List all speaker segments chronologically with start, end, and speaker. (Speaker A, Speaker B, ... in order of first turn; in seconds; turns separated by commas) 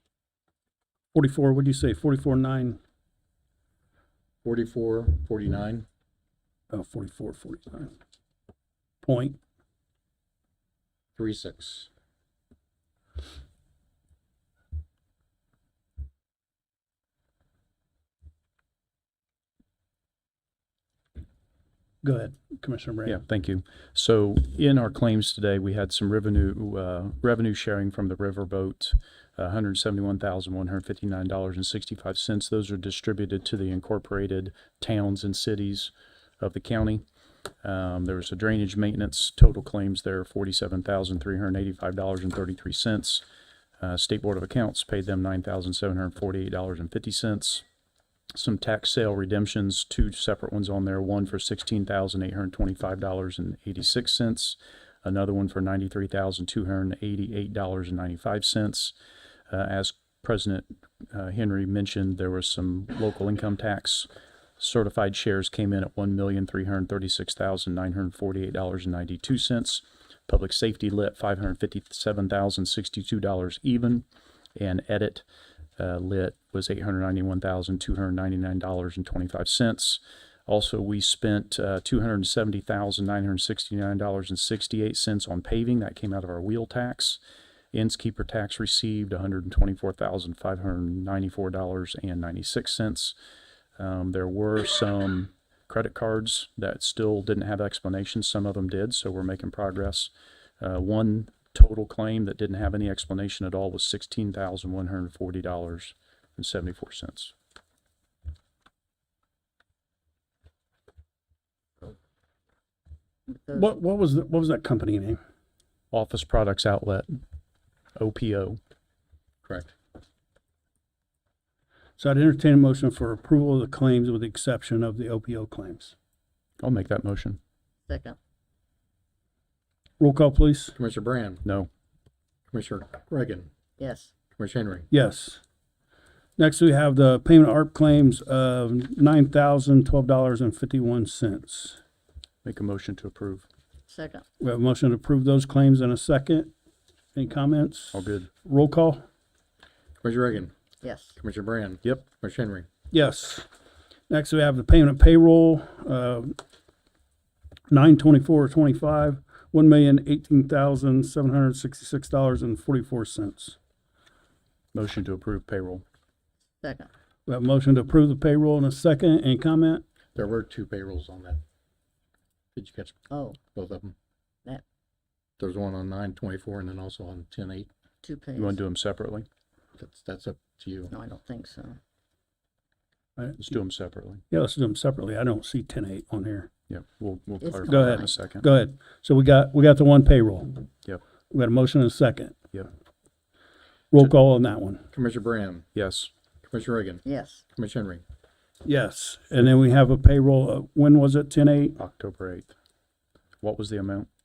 Speaker A: 1.1-2.8, Speaker B: 4.4-5.9, Speaker A: 6.7-8.0, Speaker A: 9.0-9.4, Speaker B: 11.2-11.9, Speaker A: 22.0-23.2, Speaker C: 23.1-37.0, Speaker C: 37.6-43.2, Speaker C: 43.8-47.6, Speaker C: 48.3-59.0, Speaker C: 59.5-75.2, Speaker C: 75.8-87.2, Speaker C: 87.7-93.2, Speaker C: 93.8-107.3, Speaker A: 113.5-115.2, Speaker C: 115.9-117.2, Speaker C: 118.0-118.6, Speaker B: 119.4-119.7, Speaker A: 122.0-125.9, Speaker C: 126.6-127.4, Speaker D: 127.9-128.2, Speaker A: 130.0-130.8, Speaker B: 130.8-131.4, Speaker C: 131.4-131.7, Speaker B: 132.5-133.5, Speaker D: 133.8-134.1, Speaker B: 134.4-134.9, Speaker A: 134.9-135.4, Speaker A: 136.4-141.8, Speaker C: 142.4-143.5, Speaker D: 143.9-144.2, Speaker A: 144.4-146.5, Speaker A: 147.2-149.1, Speaker C: 147.9-148.4, Speaker B: 150.0-150.6, Speaker D: 150.8-151.2, Speaker B: 151.2-152.7, Speaker A: 152.9-153.5, Speaker A: 154.1-156.4, Speaker A: 157.7-163.6, Speaker C: 164.7-165.8, Speaker D: 166.6-166.9, Speaker A: 167.3-169.8, Speaker B: 170.2-171.4, Speaker B: 172.6-173.0, Speaker D: 173.1-173.4, Speaker B: 173.5-173.9, Speaker B: 175.4-177.7, Speaker D: 178.0-178.6, Speaker C: 178.4-179.3, Speaker B: 179.8-180.9, Speaker D: 180.9-181.8, Speaker A: 183.2-183.5, Speaker C: 183.4-184.2, Speaker A: 184.3-186.5, Speaker C: 186.7-188.5, Speaker D: 187.4-188.2, Speaker A: 187.7-190.7, Speaker A: 191.3-192.4, Speaker A: 193.9-194.8, Speaker B: 194.9-195.7, Speaker C: 195.8-196.1, Speaker B: 196.4-198.0, Speaker D: 197.1-197.4, Speaker A: 198.7-201.8, Speaker C: 201.8-202.6, Speaker C: 203.4-204.1